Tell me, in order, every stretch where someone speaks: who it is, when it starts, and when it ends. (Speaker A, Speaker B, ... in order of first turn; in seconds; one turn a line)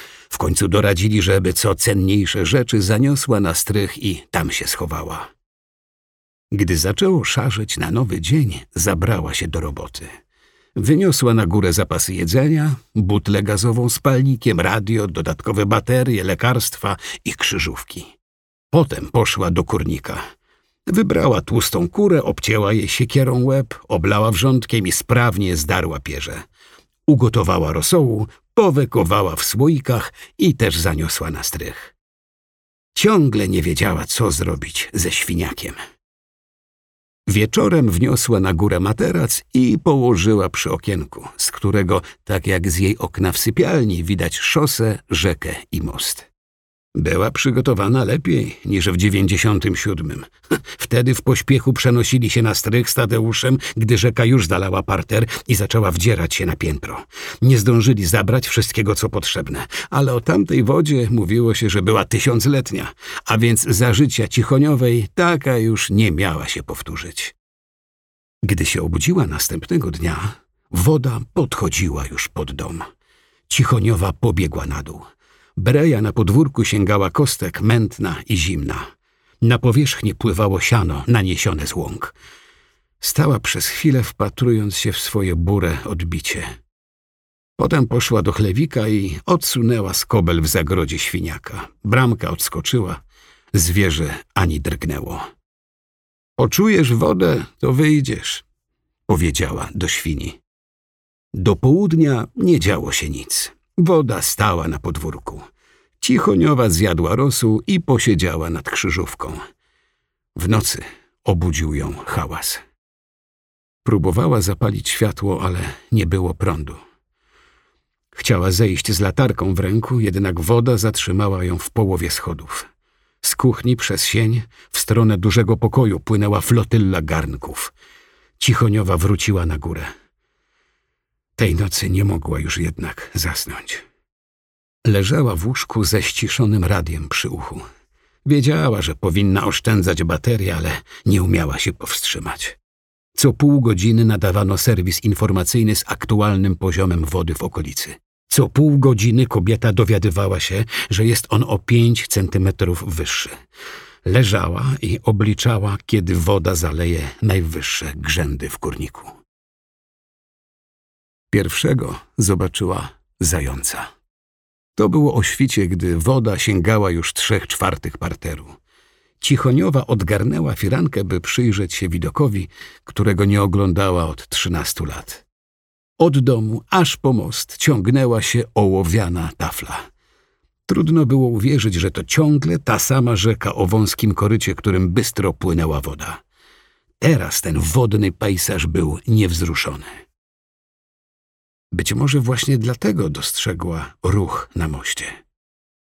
Speaker A: 0.3-5.3
Speaker A: 6.5-10.1
Speaker A: 10.8-18.1
Speaker A: 18.7-20.2
Speaker A: 20.9-26.4
Speaker A: 27.1-31.9
Speaker A: 33.0-35.8
Speaker A: 37.3-46.3
Speaker A: 47.0-67.3
Speaker A: 68.4-72.9
Speaker A: 73.5-75.0
Speaker A: 75.6-78.9
Speaker A: 79.4-82.2
Speaker A: 83.0-86.5
Speaker A: 87.6-93.0
Speaker A: 93.5-95.3
Speaker A: 96.4-98.5
Speaker A: 99.1-100.4
Speaker A: 101.3-105.5
Speaker A: 106.0-109.4
Speaker A: 110.3-112.6
Speaker A: 113.8-116.8
Speaker A: 118.2-122.7
Speaker A: 123.2-127.7
Speaker A: 128.4-129.9
Speaker A: 131.4-133.8
Speaker A: 134.8-137.6
Speaker A: 138.3-142.6
Speaker A: 143.2-153.3
Speaker A: 154.1-159.1
Speaker A: 161.3-163.9
Speaker A: 164.8-168.6
Speaker A: 169.2-175.2
Speaker A: 176.0-179.9
Speaker A: 180.7-186.2
Speaker A: 187.0-189.9
Speaker A: 191.7-195.1